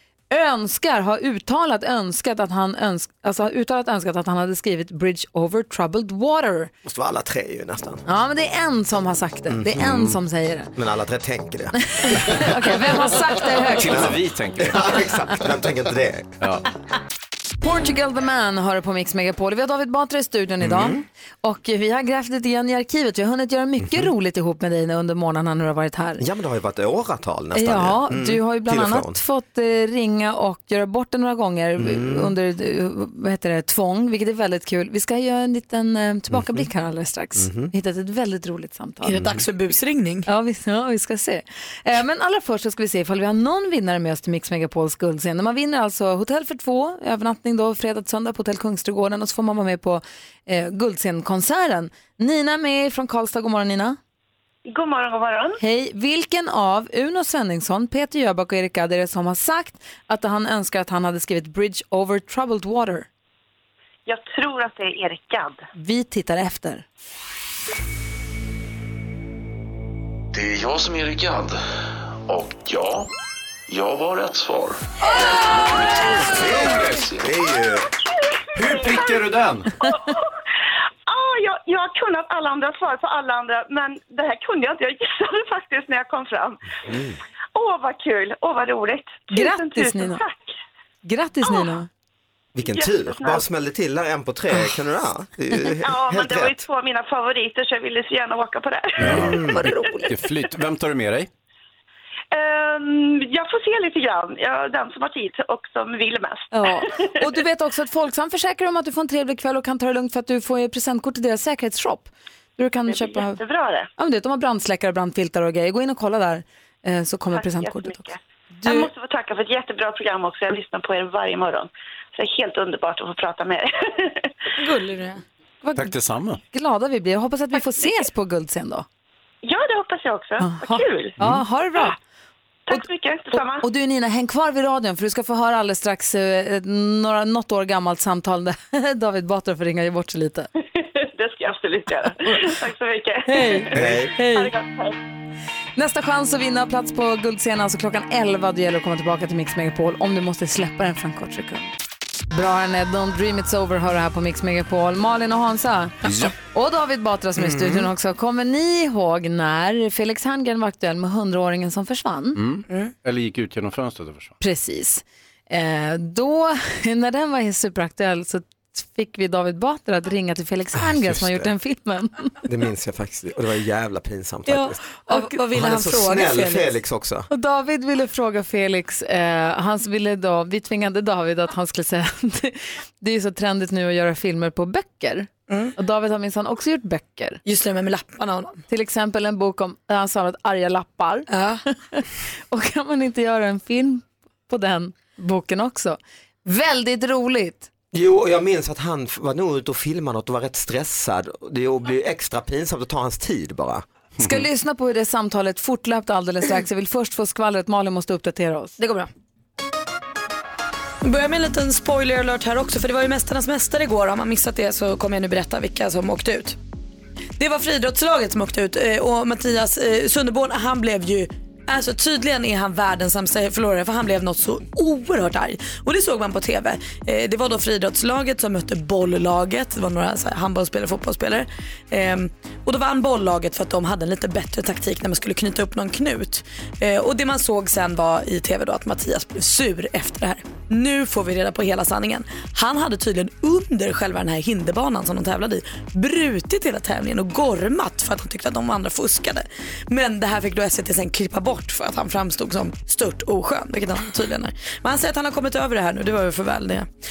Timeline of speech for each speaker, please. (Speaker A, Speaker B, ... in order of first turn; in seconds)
Speaker A: 0.3-6.7, 8.1-10.7, 11.7-14.1, 17.6-26.2, 27.5-39.2, 40.3-54.0, 55.6-63.1, 65.8-66.8, 89.3-90.2, 91.0-91.9, 99.2-100.1, 106.5-113.4, 114.0-118.1, 118.6-118.9, 125.6-125.9, 126.5-128.9, 130.4-131.9, 132.7-140.5, 143.3-144.5, 145.8-151.7, 152.3-162.4, 164.4-172.4, 175.1-175.4, 177.3-187.4, 188.7-197.7, 204.2-208.8
Speaker B: 6.8-8.0, 9.5-10.2, 10.7-13.1, 13.8-16.3, 20.6-21.0, 23.8-24.1, 26.2-29.2, 31.8-32.3, 36.3-36.7, 37.4-37.7, 77.2-77.9, 86.9-87.2, 92.5-96.6, 99.0-99.7, 143.7-144.1, 157.4-157.9, 171.1-171.4, 172.4-174.9, 175.5-177.3, 197.9-203.8
Speaker C: 13.7-15.0, 16.4-16.6, 76.6-77.0, 78.5-79.7, 99.0-99.4, 100.1-101.3, 125.7-126.4, 156.1-156.3, 162.3-164.3
Speaker D: 39.0-40.3, 124.6-125.2, 174.4-176.7, 187.4-188.6, 191.3-191.6, 208.8-209.1, 211.0-216.6, 217.4-256.9
Speaker E: 54.7-55.6, 64.0-65.6, 77.8-79.2, 79.8-80.3, 81.1-86.6, 87.5-90.5, 91.4-91.7, 92.6-93.4, 95.8-99.2, 102.3-107.1, 112.9-113.9, 117.3-124.3, 129.4-131.2, 132.7-133.6, 140.8-145.0
Speaker F: 70.3-71.6, 72.3-73.1, 73.7-77.2